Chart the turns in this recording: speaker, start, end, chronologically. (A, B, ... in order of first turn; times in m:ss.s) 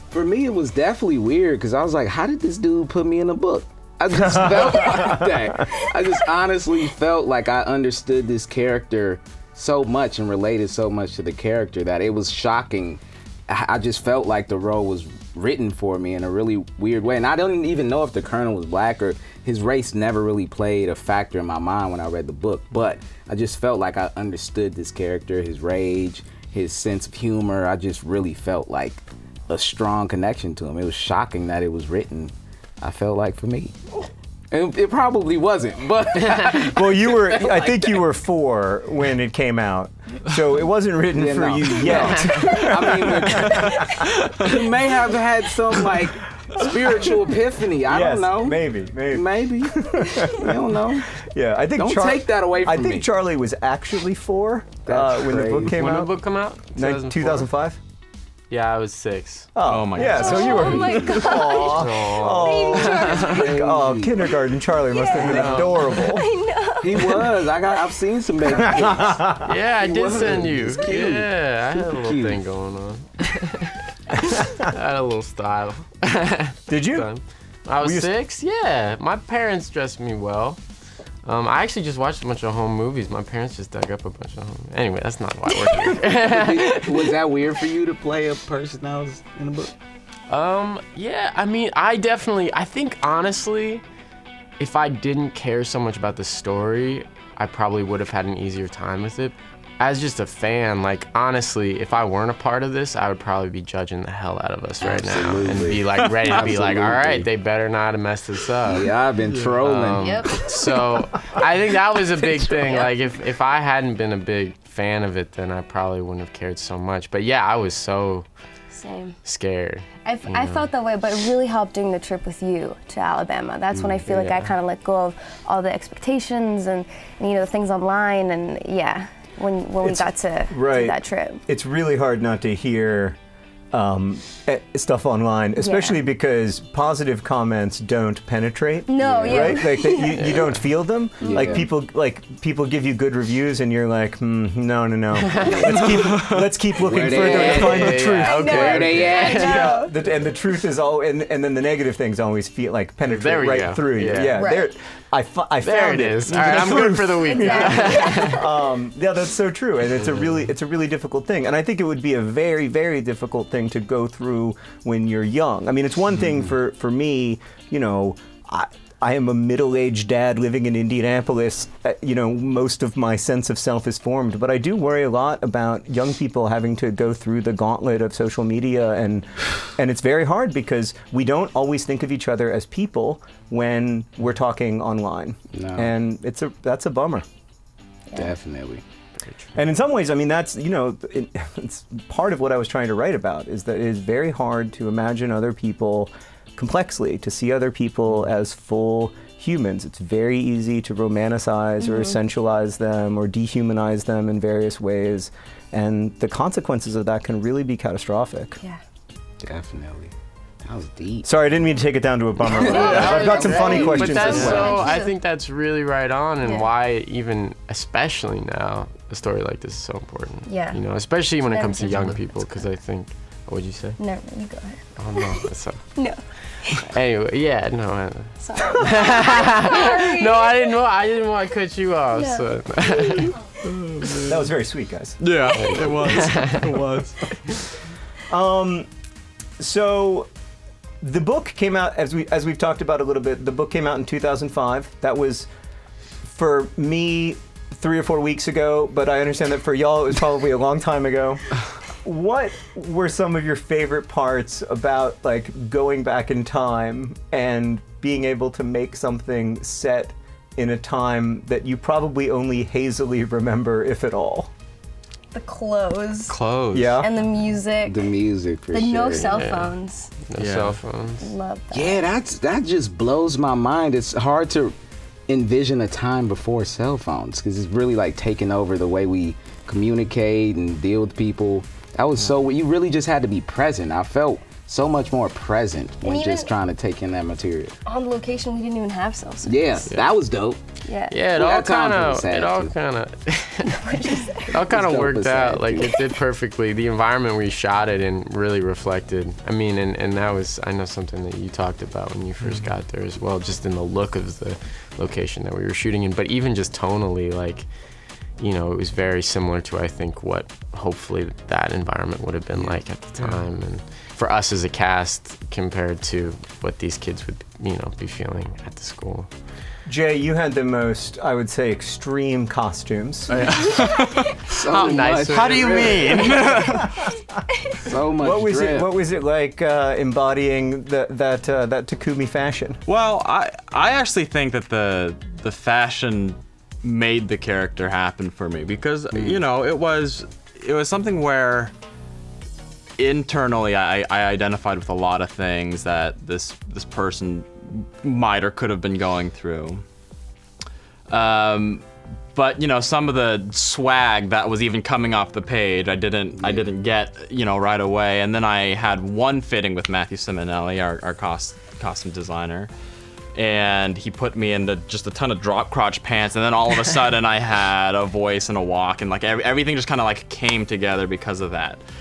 0:00.1-0:33.8 A
0:04.2-0:05.3 B
0:34.5-0:38.0 A
0:36.5-0:44.1 B
0:41.1-0:51.2 A
0:47.9-0:56.2 B
0:51.8-0:53.1 A
0:54.9-0:55.8 A
0:55.7-0:57.5 C
0:56.8-0:57.8 B
0:58.5-0:59.5 C
0:59.6-1:06.3 B
0:59.6-1:00.7 D
1:00.0-1:03.7 E
1:00.3-1:03.3 C
1:03.2-1:04.2 A
1:04.8-1:07.4 E
1:05.2-1:05.7 A
1:05.2-1:05.9 C
1:06.8-1:12.4 A
1:08.6-1:09.5 B
1:09.4-1:20.6 C
1:16.7-1:17.1 B
1:17.8-1:18.1 B
1:21.2-1:27.1 C
1:25.6-1:25.9 E
1:26.2-1:29.7 A
1:30.3-1:33.8 C
1:34.6-1:48.9 C
1:44.8-1:47.3 A
1:48.6-1:50.3 A
1:49.6-1:58.2 C
1:50.0-1:50.5 E
1:52.5-1:52.9 E
1:58.7-1:59.2 E
1:59.2-2:00.7 C
2:00.0-2:11.4 E
2:03.7-2:04.1 A
2:04.1-2:04.5 C
2:09.8-2:13.2 B
2:13.7-3:07.2 B
2:15.6-2:16.1 E
2:18.9-2:20.4 E
2:19.0-2:19.6 A
2:20.0-2:20.5 C
2:21.2-2:21.7 A
2:21.2-2:21.7 E
2:25.2-2:25.9 C
2:25.5-2:25.8 A
2:25.9-2:26.5 D
2:26.8-2:29.7 A
2:27.1-2:29.8 C
2:28.1-2:29.9 E
2:33.0-2:34.5 C
2:34.3-2:34.7 E
2:35.6-2:38.4 C
2:37.2-2:38.5 E
3:05.5-3:05.9 A
3:08.1-3:08.8 A
3:09.3-3:09.6 C
3:09.6-3:28.6 B
3:21.8-3:22.2 E
3:29.4-3:30.1 A
3:30.6-3:31.3 A
3:31.2-3:34.9 B
3:32.5-3:34.0 A
3:32.6-3:35.2 E
3:32.7-3:44.0 C
3:34.3-3:34.6 D
3:36.4-3:36.7 E
3:40.5-3:40.8 E
3:41.3-3:42.6 E
3:44.0-3:45.4 E
3:45.0-3:53.3 C
3:46.0-3:46.9 E
3:48.4-3:50.7 E
3:52.1-3:53.3 E
3:53.6-3:54.5 D
3:54.3-3:55.2 B
3:55.2-3:57.7 D
3:55.5-3:56.7 C
3:58.3-3:58.9 B
3:59.6-4:00.3 B
4:01.0-4:05.5 B
4:06.2-4:24.5 B
4:25.3-4:26.4 E
4:26.3-4:27.1 D
4:26.7-4:27.1 B
4:27.0-4:28.1 E
4:27.8-4:29.5 A
4:28.7-4:30.1 E
4:29.2-4:31.3 C
4:30.4-4:30.8 D
4:31.2-4:32.0 E
4:31.7-4:34.7 A
4:35.3-4:47.8 A
4:46.0-4:46.5 E
4:47.9-4:49.9 E
4:49.4-4:50.6 A
4:50.8-4:51.2 E
4:51.1-4:53.9 C
4:51.3-4:52.7 A
4:53.6-4:54.6 E
4:54.5-5:07.7 C
4:54.6-4:56.0 A
5:02.4-5:02.7 D
5:08.4-5:19.3 C
5:19.9-5:23.5 B
5:23.3-5:23.8 C
5:23.3-5:27.0 D
5:23.7-5:24.3 E
5:24.5-5:26.7 A
5:24.7-5:26.6 C
5:27.8-5:28.9 A
5:28.2-5:32.8 B
5:32.9-5:41.7 D
5:43.0-5:49.8 D
5:51.1-6:02.7 D
5:56.4-5:56.7 A
6:03.4-6:11.8 D